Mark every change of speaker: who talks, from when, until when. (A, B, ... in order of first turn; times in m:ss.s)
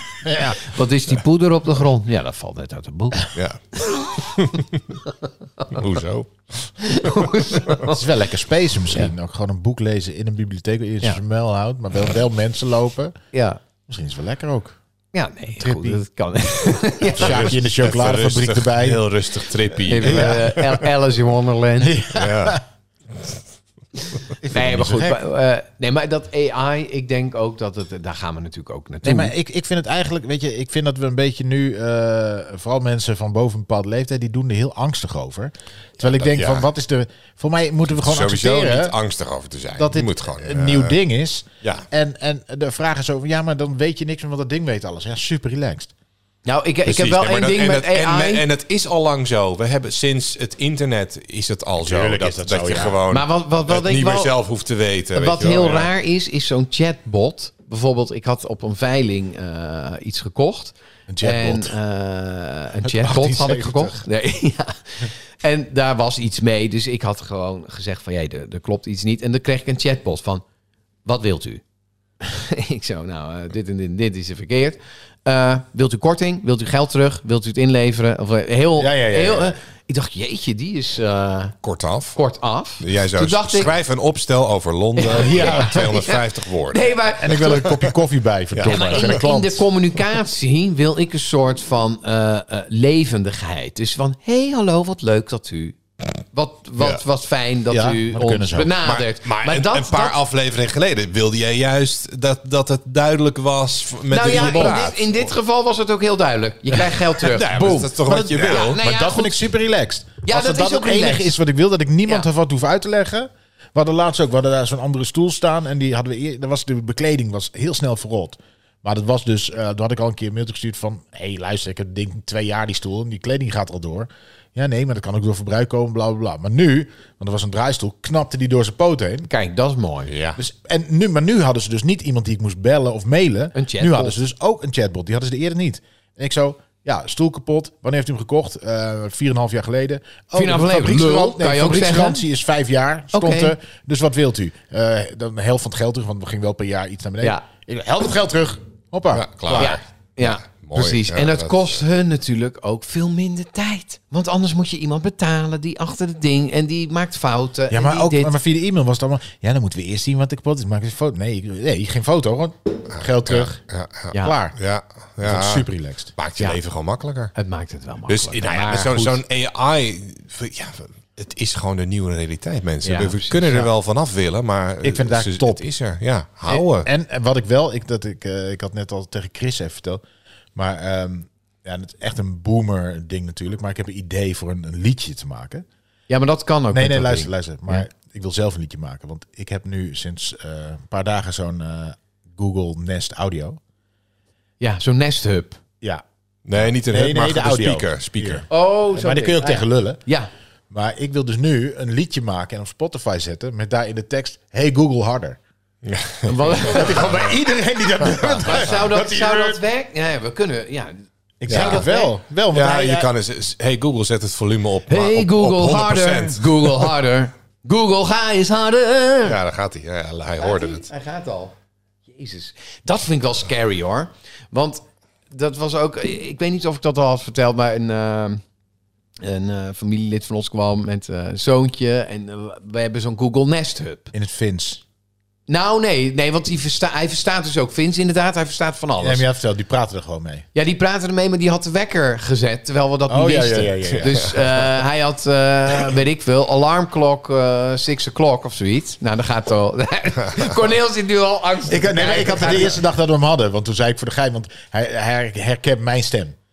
0:00.2-0:00.6 A
0:00.5-0:03.3 B
0:03.3-0:05.0 C
0:05.7-0:07.3 C
0:06.8-0:08.1 B
0:07.8-0:13.2 A
0:13.3-0:13.6 B
0:13.9-0:14.8 A
0:15.1-0:17.6 B
0:15.6-0:16.0 A
0:17.1-0:19.0 A
0:17.2-0:20.9 C
0:19.8-0:22.0 B
0:20.0-0:20.6 A
0:21.8-0:22.6 A
0:22.2-0:22.6 C
0:24.4-0:25.2 A
0:24.4-0:29.3 B
0:29.0-0:38.9 A
0:36.2-0:36.7 C
0:38.0-0:41.0 C
0:39.8-0:45.9 A
0:46.4-0:48.4 B
0:46.8-0:55.9 C
0:51.8-0:53.0 A
0:53.1-0:54.3 B
0:55.1-1:10.4 B
1:01.1-1:01.8 A
1:02.8-1:04.0 A
1:11.0-1:11.6 B
1:12.2-1:21.5 B
1:18.8-1:19.6 A
1:21.6-1:22.2 C
1:22.1-1:23.7 B
1:22.8-1:26.9 C
1:25.0-1:27.7 B
1:25.3-1:25.8 A
1:27.2-1:29.7 A
1:28.5-1:29.2 C
1:28.6-1:35.8 B
1:36.3-1:40.2 B
1:37.7-1:38.8 A
1:38.8-1:45.3 C
1:44.1-1:47.8 B
1:44.3-1:44.8 A
1:47.2-1:48.8 C
1:47.5-2:09.3 A
1:48.4-1:49.5 B
1:50.2-1:51.3 B
2:09.3-2:10.1 B
2:10.1-2:10.4 C
2:10.4-2:29.8 A
2:13.5-2:14.2 B
2:20.3-2:22.2 B
2:23.1-2:23.5 B
2:29.1-2:31.8 C
2:29.6-2:38.3 B
2:37.7-2:43.6 A
2:42.9-2:47.3 C
2:44.1-2:44.6 A
2:45.2-2:46.1 A
2:47.3-2:49.2 B
2:48.1-2:56.9 C
2:52.8-2:53.7 B
2:54.8-2:55.7 A
2:56.5-3:00.0 A
3:00.5-3:05.6 A
3:06.1-3:07.8 B
3:06.7-3:13.6 A
3:14.6-3:15.6 B
3:16.4-3:18.4 C
3:16.6-3:20.0 A
3:18.5-3:20.3 B
3:20.7-3:25.4 A
3:25.8-3:27.3 C
3:26.2-3:27.3 B
3:26.6-3:29.6 A
3:28.1-3:28.6 C
3:28.4-3:32.1 B
3:31.4-3:33.1 A
3:31.5-3:31.9 C
3:32.5-3:37.0 C
3:34.9-3:39.4 B
3:39.2-3:40.9 C
3:40.4-3:41.5 B
3:42.1-3:48.4 B
3:49.2-3:54.1 B
3:54.1-3:54.8 A
3:55.5-3:59.2 B
3:59.0-4:00.4 A
4:00.5-4:12.8 B
4:03.1-4:04.2 A
4:03.9-4:04.4 C
4:11.7-4:16.4 A